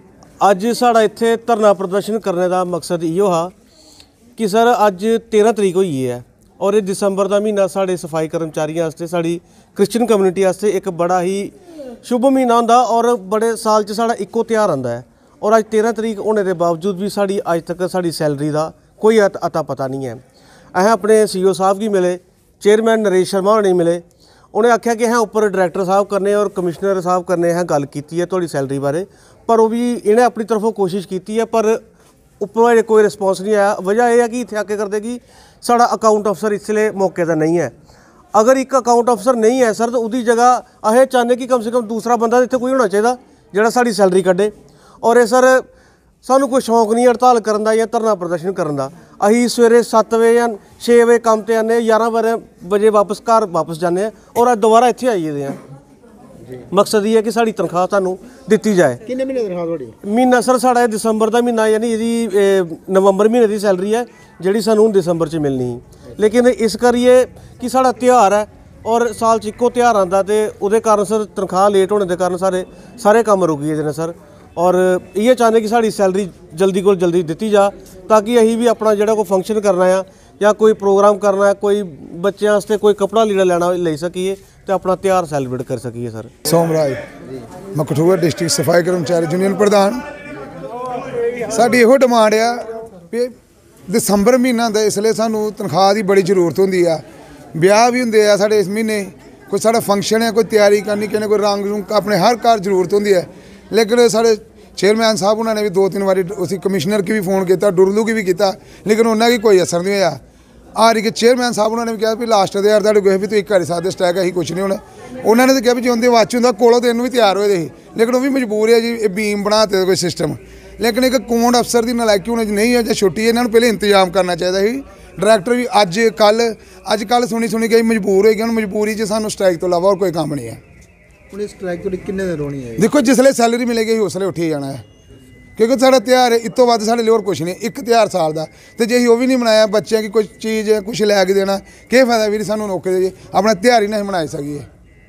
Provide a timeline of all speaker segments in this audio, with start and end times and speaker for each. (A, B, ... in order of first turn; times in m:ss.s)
0:00.4-0:03.5 A
0:04.4-0:20.2 A
0:20.7-0:31.8 A
0:32.4-0:37.7 A
0:38.3-0:45.7 A
0:46.2-0:55.6 A
0:56.5-0:59.1 A
0:59.1-0:59.9 B
1:00.0-1:26.3 A
1:26.4-1:27.0 C
1:27.7-1:30.0 C
1:31.4-1:33.3 C
1:33.9-1:37.0 C
1:37.6-1:50.2 C
1:50.8-2:10.6 C
2:11.3-2:12.8 B
2:12.8-2:14.8 C
2:15.6-2:24.7 C